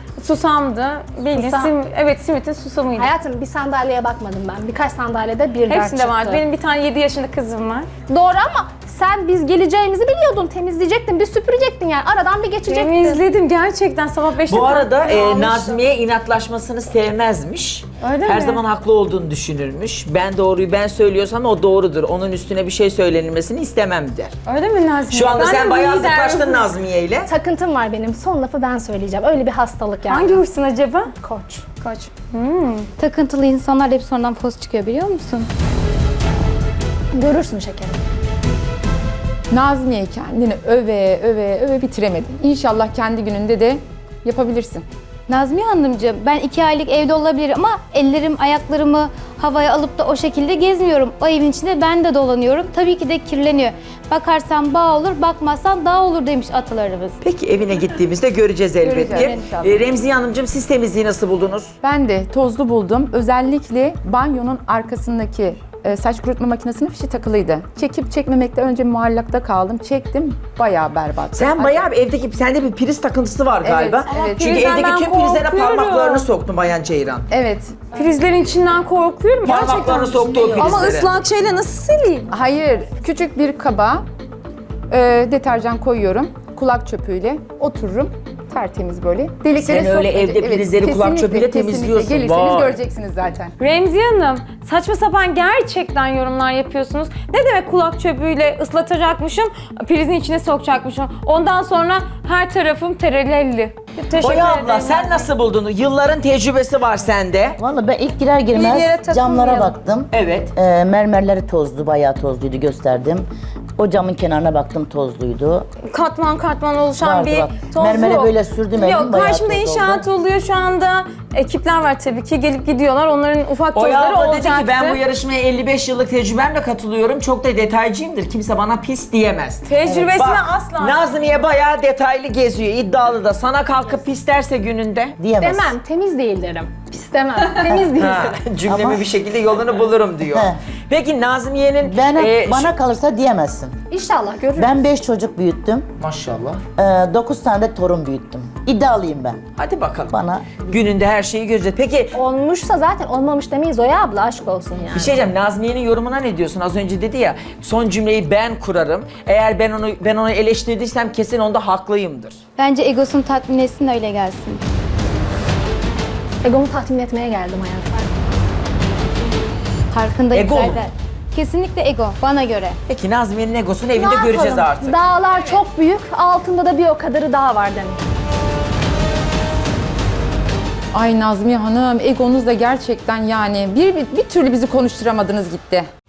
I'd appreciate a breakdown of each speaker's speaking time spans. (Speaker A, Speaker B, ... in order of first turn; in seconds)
Speaker A: 0.2-3.1, 5.6-7.9, 12.7-15.8, 18.0-18.6, 24.4-26.6, 30.1-31.1, 31.8-32.9, 74.1-76.2, 77.9-82.3, 93.6-105.3, 108.5-109.8, 115.9-125.0, 129.6-131.1
Speaker B: 1.3-1.7, 3.0-6.4, 8.1-13.2, 27.3-30.4, 31.2-31.6, 37.1-38.0, 135.4-138.4, 143.9-144.8, 152.1-155.2, 166.4-168.1, 173.9-178.0
Speaker C: 14.5-24.3, 25.1-27.3, 57.2-61.7, 71.3-77.3, 79.4-81.1, 89.6-92.8, 104.2-107.6, 110.1-110.5, 123.7-135.2, 137.6-142.7, 146.0-146.6, 149.6-152.2, 154.9-162.4, 170.3-170.9, 172.9-175.0
Speaker D: 33.0-35.5, 45.3-57.2, 59.1-59.5, 162.6-164.6, 169.9-172.8
Speaker E: 39.5-44.8, 58.8-59.8, 61.8-71.9, 73.6-74.7, 77.3-77.8, 82.3-84.0, 84.9-93.5, 180.9-185.9
Speaker F: 79.9-80.7, 107.6-113.2, 113.8-115.7, 117.0-120.0, 129.8-130.2, 135.2-135.7, 138.7-139.0, 140.3-140.6, 141.8-143.8, 144.6-145.9, 146.8-149.4, 150.1-150.5